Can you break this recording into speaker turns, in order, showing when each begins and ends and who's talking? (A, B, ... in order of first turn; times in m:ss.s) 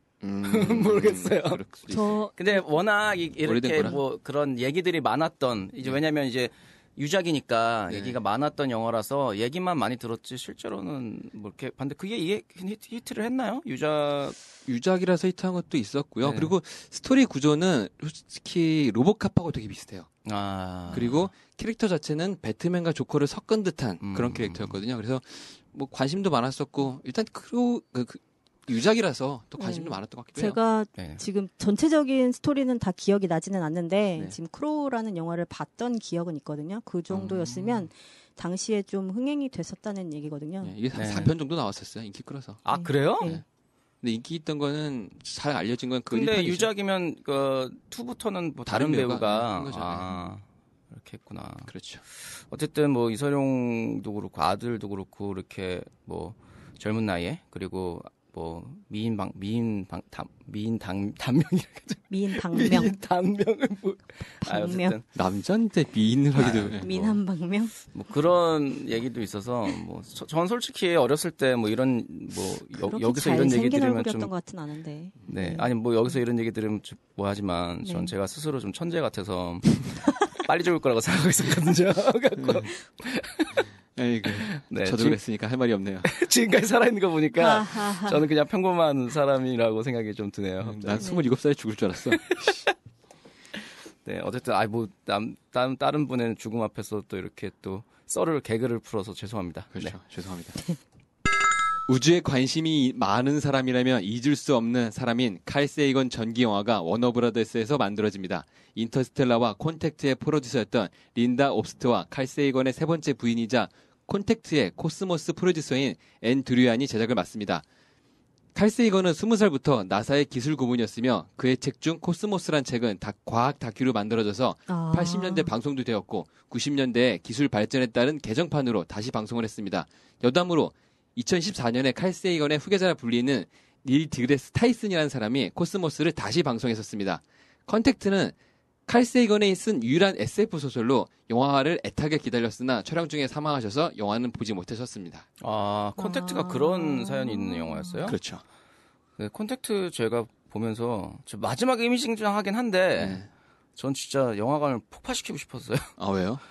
0:00.2-0:02.2 A
0:00.4-0:01.6 B
0:01.9-0:02.6 C
0:02.3-0:14.4 B
0:03.4-0:04.0 A
0:07.9-0:08.2 A
0:14.6-0:20.1 A
0:16.2-0:16.5 B
0:20.2-0:21.3 B
0:20.9-0:30.6 A
0:24.0-0:24.8 B
0:29.6-0:40.7 C
0:31.0-0:31.2 B
0:37.1-0:37.4 A
0:37.4-0:37.9 B
0:40.6-0:43.4 A
0:40.9-0:41.3 B
0:42.6-0:43.4 B
0:42.7-0:43.4 C
0:44.0-0:46.7 A
0:46.1-1:05.1 B
0:48.6-0:50.3 A
0:51.7-0:52.0 A
1:02.1-1:03.0 C
1:04.4-1:05.0 C
1:05.1-1:07.2 A
1:06.4-1:06.8 B
1:06.7-1:07.7 C
1:07.9-1:14.3 B
1:12.8-1:15.7 C
1:15.3-1:23.6 B
1:17.8-1:18.1 C
1:23.9-1:26.1 A
1:24.3-1:25.2 B
1:26.0-1:31.1 B
1:27.4-1:28.2 C
1:30.6-1:32.5 A
1:32.3-1:32.7 B
1:34.0-1:40.0 B
1:39.7-1:40.7 A
1:41.9-1:57.6 A
1:58.5-2:18.3 A
2:04.7-2:05.5 C
2:18.9-2:25.2 A
2:25.4-2:28.2 B
2:26.0-2:28.1 C
2:28.0-2:28.4 A
2:29.2-2:35.9 B
2:33.0-2:33.3 A
2:36.0-2:36.4 A